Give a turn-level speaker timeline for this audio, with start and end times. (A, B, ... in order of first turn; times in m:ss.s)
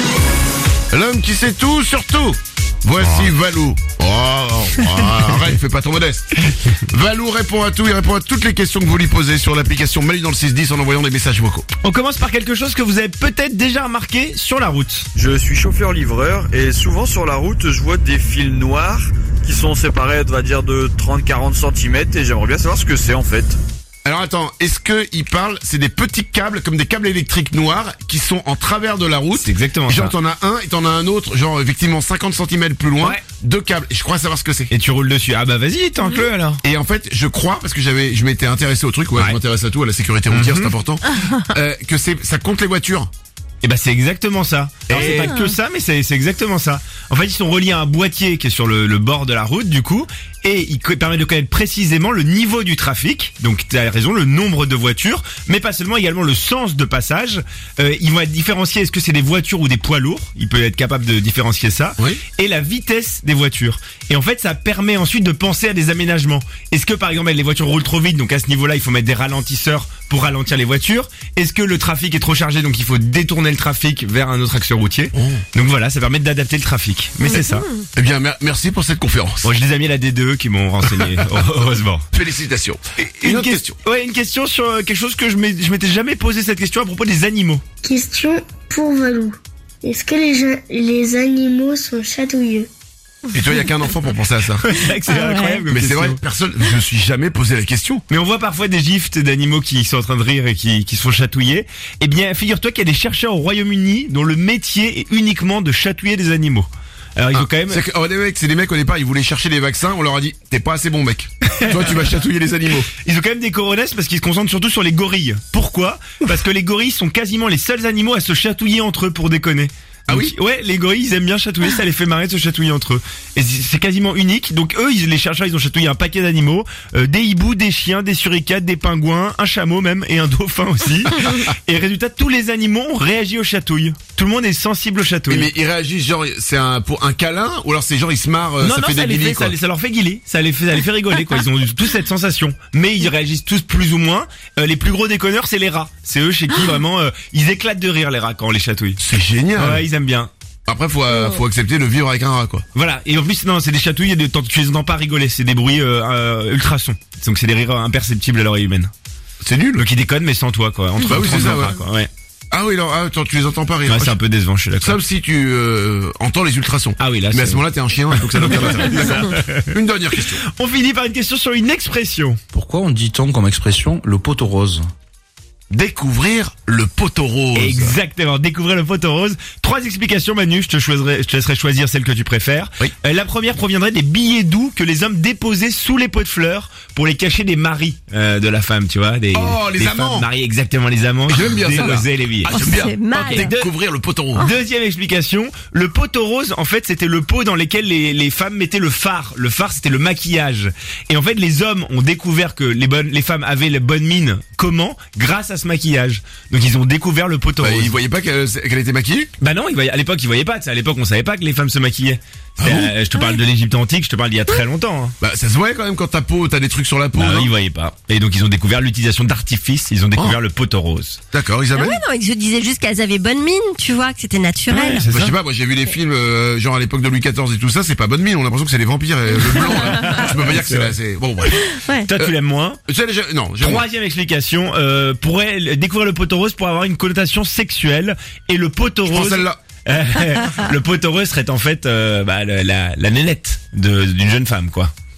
0:00.9-0:06.3 A
0:06.9-0:11.7 A
0:11.8-0:15.1 B
0:15.2-0:23.6 C
0:24.0-0:34.7 A
0:29.3-0:30.1 B
0:34.7-0:36.6 B
0:36.6-0:43.1 A
0:40.3-0:40.7 B
0:43.6-1:17.7 B
0:44.9-0:45.4 A
1:15.1-1:15.4 A
1:17.9-1:19.5 A
1:19.4-1:22.0 B
1:22.1-1:23.8 A
1:23.0-1:27.6 B
1:27.8-1:32.7 D
1:33.3-1:34.7 A
1:34.6-1:36.2 B
1:35.1-1:35.6 E
1:35.7-1:38.0 A
1:38.1-1:47.8 B
1:47.3-1:52.9 A
1:51.5-1:51.9 B
1:53.0-2:15.5 B
2:00.1-2:00.3 A
2:15.3-2:19.6 A
2:18.6-2:29.0 B
2:29.0-2:29.8 A
2:29.6-2:30.3 B
2:30.7-2:32.6 A
2:32.7-2:38.9 B
2:39.4-2:39.8 A
2:39.8-2:42.1 B
2:41.0-2:41.8 A
2:42.5-2:44.2 A
2:43.8-2:45.0 B
2:44.8-2:50.4 A
2:47.0-2:49.6 B
2:50.5-2:52.4 B
2:52.5-2:54.9 F
2:55.7-2:58.0 A
2:57.5-3:13.7 B
3:09.3-3:10.3 A
3:11.3-3:14.5 A
3:12.5-3:13.5 E
3:14.3-3:27.9 B
3:27.6-3:29.3 A
3:29.4-3:35.1 B
3:32.6-3:32.9 A
3:35.2-3:37.5 A
3:37.1-3:41.2 B
3:41.3-3:42.0 A
3:41.7-3:45.0 E
3:44.7-3:45.3 B
3:45.1-3:52.3 A
3:49.7-3:50.9 B
3:51.7-3:52.1 E
3:52.1-3:52.8 B
3:52.9-3:53.8 A
3:53.6-4:04.9 B
3:59.1-3:59.6 A